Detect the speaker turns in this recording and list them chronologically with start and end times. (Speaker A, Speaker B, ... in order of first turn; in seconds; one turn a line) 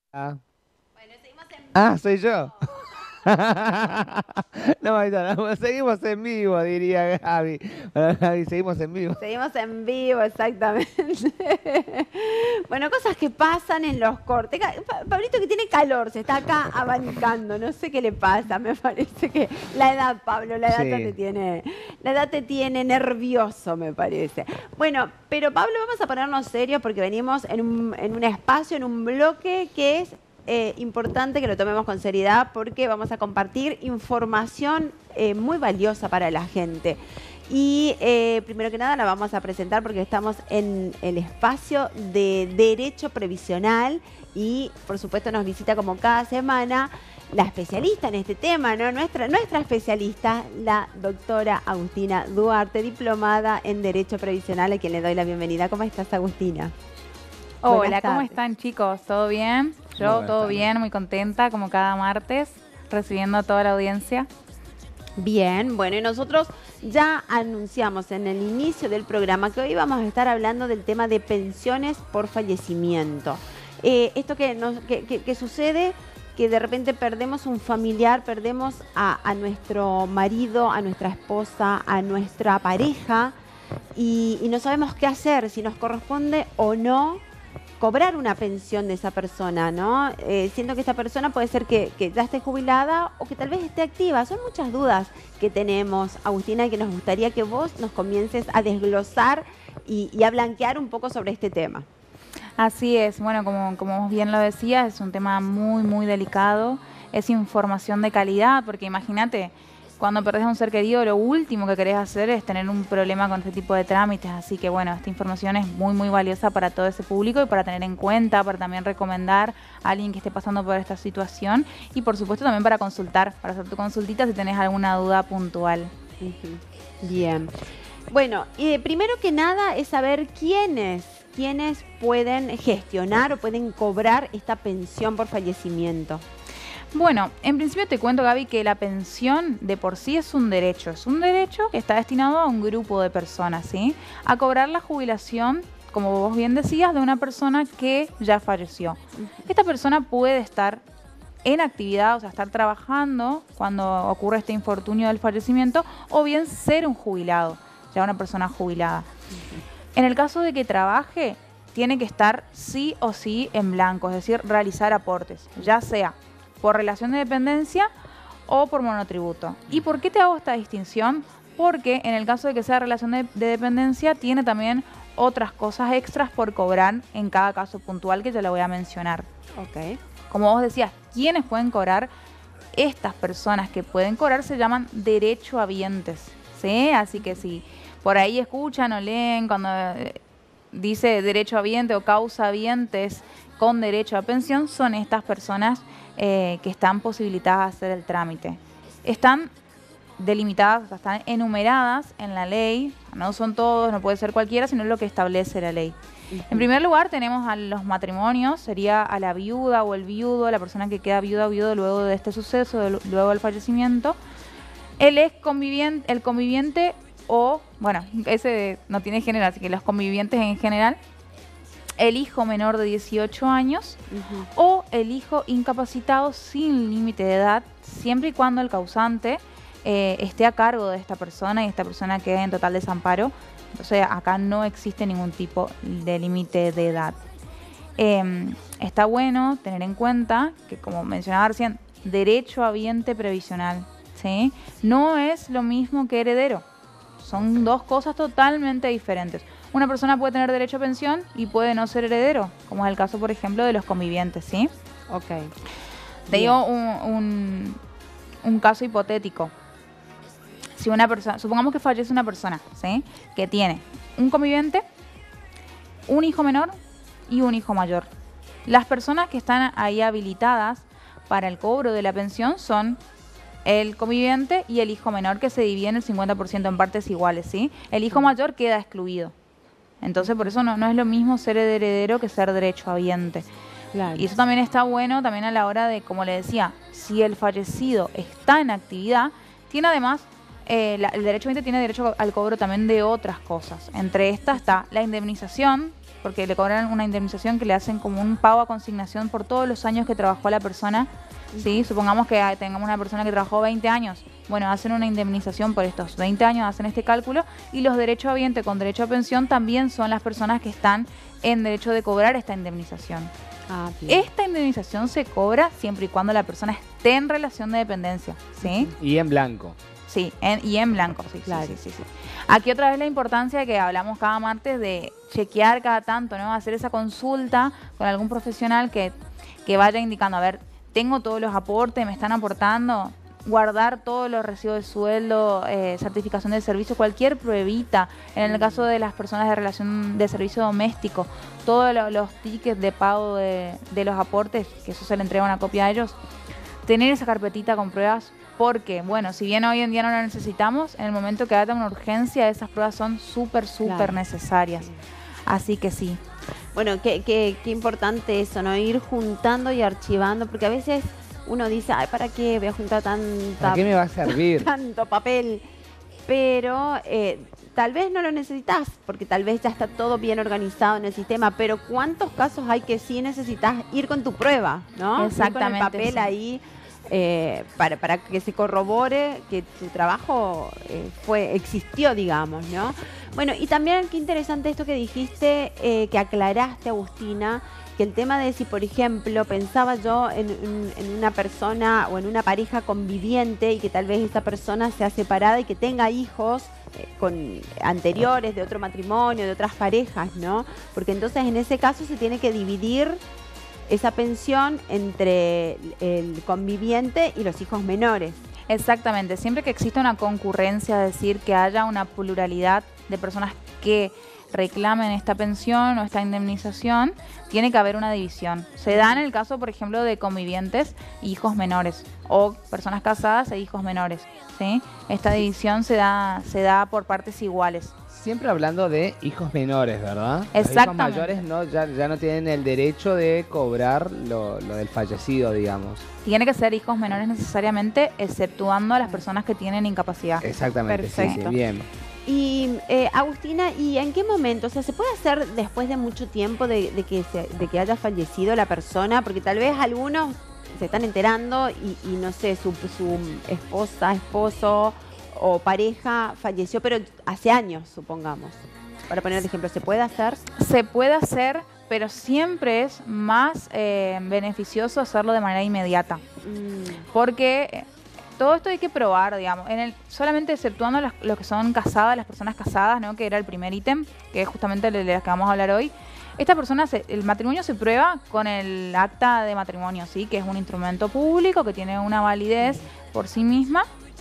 Speaker A: 0.1-0.4
Speaker A: 1.7-9.2
Speaker B: 9.2-56.7
Speaker A: 20.7-21.1
Speaker C: 57.6-64.3
Speaker B: 57.6-58.4
Speaker A: 60.0-60.7
Speaker B: 65.2-83.3
Speaker B: 83.9-87.2
Speaker B: 87.8-101.8
Speaker C: 102.6-125.9
Speaker B: 126.2-127.5
Speaker B: 128.1-136.2
Speaker C: 136.9-150.8
Speaker B: 149.2-149.4
Speaker C: 151.4-159.1
Speaker C: 159.9-167.9
Speaker C: 168.5-179.3
Speaker B: 179.6-180.0
Speaker C: 180.3-182.1
Speaker C: 182.7-190.2
Speaker C: 190.7-199.5
Speaker C: 200.2-205.9
Speaker B: 206.3-206.7
Speaker C: 206.5-214.2
Speaker C: 215.0-221.0
Speaker C: 222.0-224.0
Speaker B: 224.1-224.5
Speaker C: 224.5-237.2
Speaker C: 238.0-246.6
Speaker C: 247.2-254.7
Speaker B: 255.1-255.5
Speaker B: 256.3-256.6
Speaker C: 256.3-257.8
Speaker C: 258.4-259.5
Speaker C: 260.8-264.8
Speaker C: 266.1-266.8
Speaker C: 267.3-268.1
Speaker C: 268.6-273.0
Speaker C: 273.6-279.3
Speaker C: 280.0-283.4
Speaker B: 280.2-280.5
Speaker B: 283.9-284.2
Speaker C: 284.1-313.3
Speaker B: 301.5-301.9
Speaker B: 313.7-314.3
Speaker C: 314.1-318.9
Speaker B: 318.6-318.9
Speaker A: 319.0-319.8
Speaker C: 320.1-329.1
Speaker B: 321.5-321.7
Speaker C: 329.6-346.2
Speaker B: 338.4-338.8
Speaker C: 346.8-354.9
Speaker B: 353.9-354.2
Speaker C: 355.5-356.2
Speaker B: 356.7-365.6
Speaker A: 363.6-364.7
Speaker B: 366.3-403.2
Speaker C: 375.2-376.3
Speaker B: 403.9-408.4
Speaker C: 408.7-427.9
Speaker B: 418.9-419.2
Speaker A: 428.1-436.0
Speaker C: 430.5-431.4
Speaker C: 436.2-440.4
Speaker A: 440.4-441.9
Speaker B: 440.9-441.6
Speaker B: 442.2-460.4
Speaker C: 460.5-466.2
Speaker B: 466.4-467.1
Speaker C: 467.1-483.9